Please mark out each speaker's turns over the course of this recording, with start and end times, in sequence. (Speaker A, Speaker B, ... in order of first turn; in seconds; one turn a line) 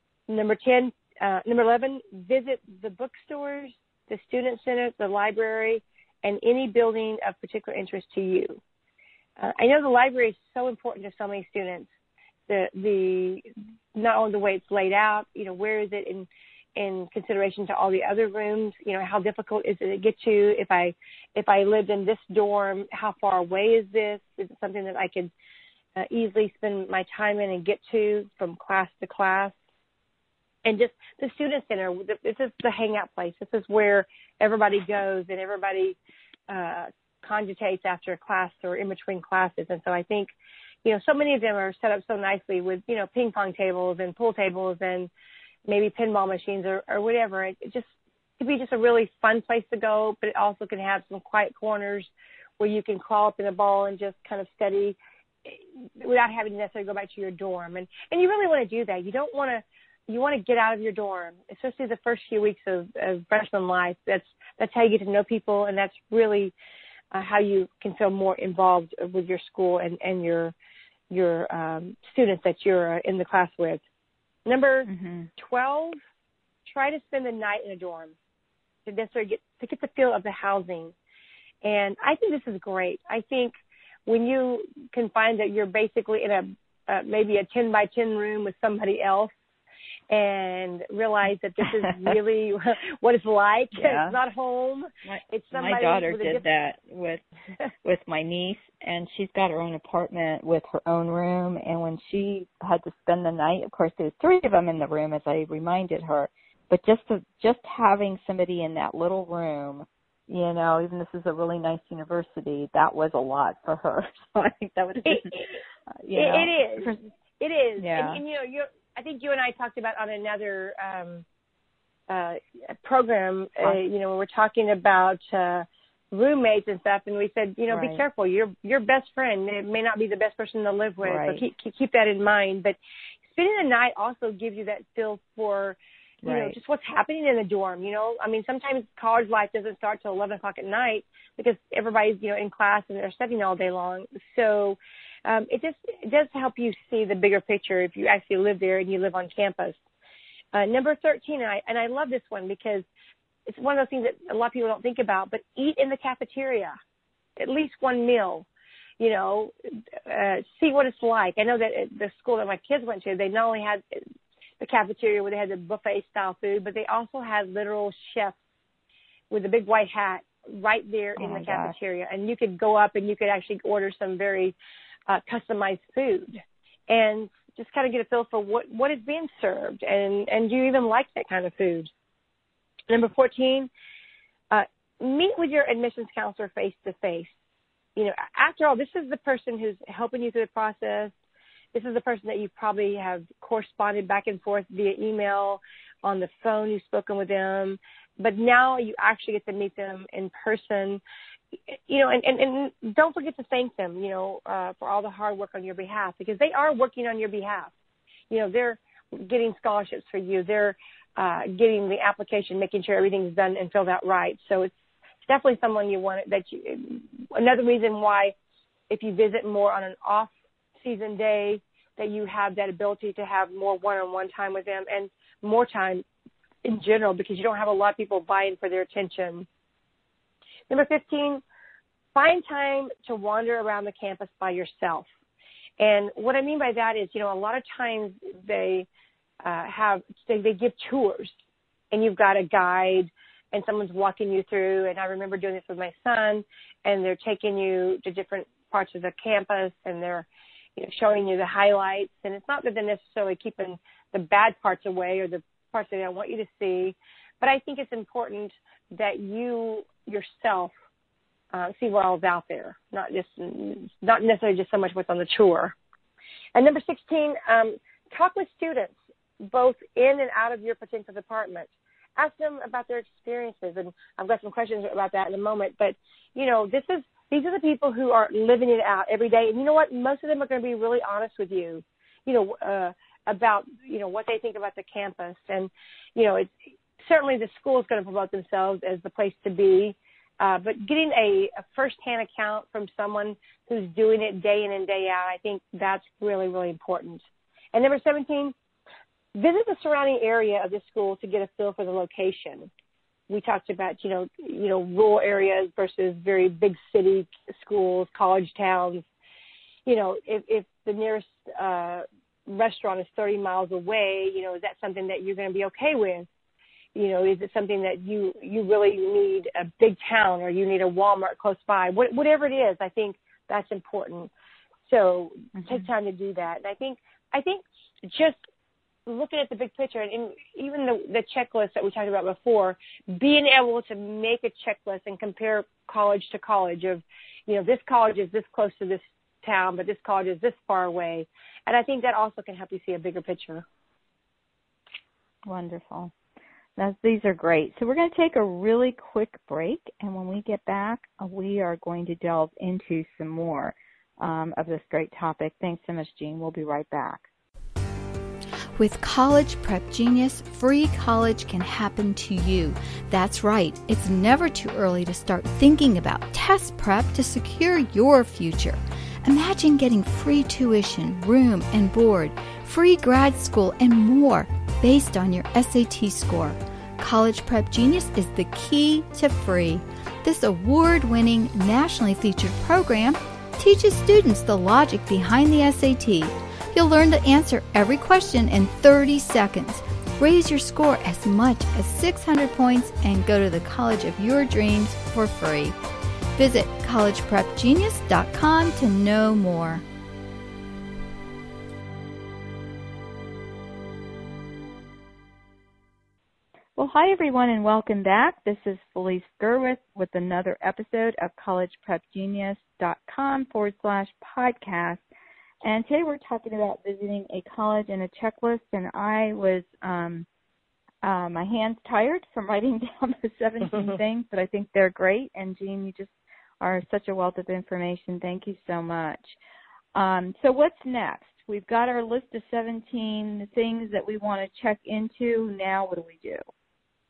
Speaker A: 0.3-8.6
Speaker A: 9.4-11.9
Speaker A: 12.5-25.3
Speaker A: 26.0-29.6
Speaker A: 30.6-36.0
Speaker A: 36.5-40.3
Speaker A: 40.9-45.1
Speaker A: 45.7-66.5
Speaker A: 67.1-70.5
Speaker A: 71.1-73.8
Speaker A: 74.5-76.0
Speaker B: 74.9-75.3
Speaker A: 76.7-78.1
Speaker A: 78.9-80.9
Speaker A: 81.6-83.5
Speaker A: 84.1-89.3
Speaker A: 90.1-96.4
Speaker B: 93.7-94.2
Speaker B: 95.0-97.2
Speaker B: 97.8-115.5
Speaker A: 115.1-115.6
Speaker B: 116.0-117.0
Speaker A: 116.1-121.2
Speaker B: 117.8-118.2
Speaker A: 122.1-132.8
Speaker B: 127.7-128.0
Speaker B: 131.0-131.4
Speaker A: 133.3-149.8
Speaker B: 136.2-136.6
Speaker A: 150.5-152.8
Speaker A: 153.5-156.7
Speaker A: 157.4-158.5
Speaker A: 159.0-159.5
Speaker A: 160.1-164.0
Speaker A: 164.6-168.4
Speaker A: 169.3-174.6
Speaker B: 171.2-171.8
Speaker A: 175.1-181.9
Speaker A: 182.9-183.7
Speaker A: 184.5-187.3
Speaker A: 188.0-191.1
Speaker A: 191.7-201.0
Speaker A: 201.7-207.7
Speaker A: 208.3-214.7
Speaker A: 215.2-218.3
Speaker A: 218.9-226.0
Speaker A: 226.6-229.5
Speaker A: 230.7-231.4
Speaker A: 232.2-235.1
Speaker A: 235.8-238.9
Speaker A: 239.4-241.3
Speaker A: 241.9-260.7
Speaker A: 261.5-265.8
Speaker A: 266.6-297.2
Speaker A: 297.7-298.6
Speaker A: 299.4-302.7
Speaker A: 303.3-309.1
Speaker A: 309.9-316.3
Speaker A: 316.9-324.3
Speaker A: 324.9-328.4
Speaker B: 325.6-325.9
Speaker A: 329.1-343.6
Speaker B: 345.5-346.1
Speaker B: 346.8-357.2
Speaker C: 358.8-395.8
Speaker C: 396.4-399.8
Speaker B: 406.8-415.0
Speaker B: 415.6-420.3
Speaker B: 421.0-429.3
Speaker B: 429.9-436.4